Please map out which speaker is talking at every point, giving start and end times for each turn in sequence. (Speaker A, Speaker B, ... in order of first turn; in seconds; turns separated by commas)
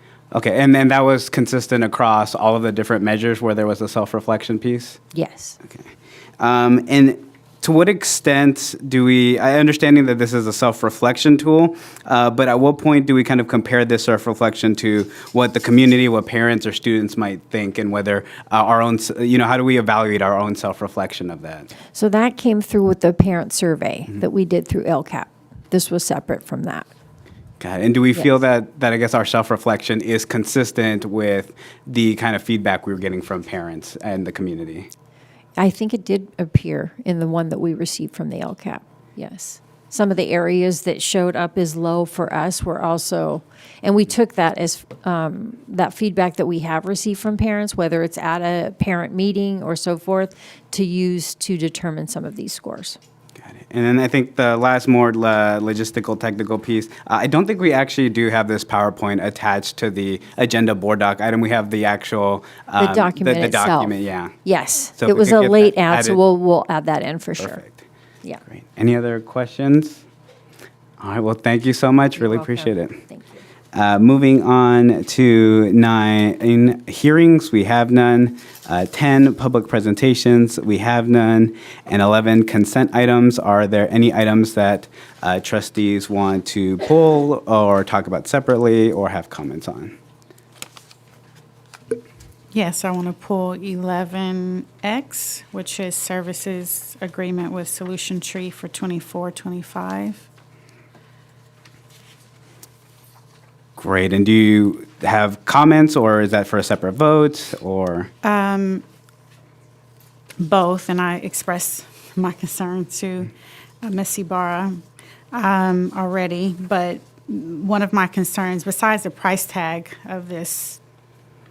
Speaker A: 0.3-5.0, Speaker B: 5.1-5.6, Speaker A: 5.7-21.7, Speaker B: 21.9-26.9, Speaker A: 27.6-34.9, Speaker B: 35.6-53.0, Speaker A: 53.4-64.3, Speaker B: 62.8-67.6, Speaker A: 65.0-66.2, Speaker A: 67.4-67.8, Speaker A: 68.5-70.0, Speaker A: 71.0-73.0, Speaker B: 72.2-73.4, Speaker A: 73.7-90.0, Speaker C: 92.5-100.2, Speaker A: 103.8-108.1, Speaker C: 108.2-108.8, Speaker C: 110.4-120.8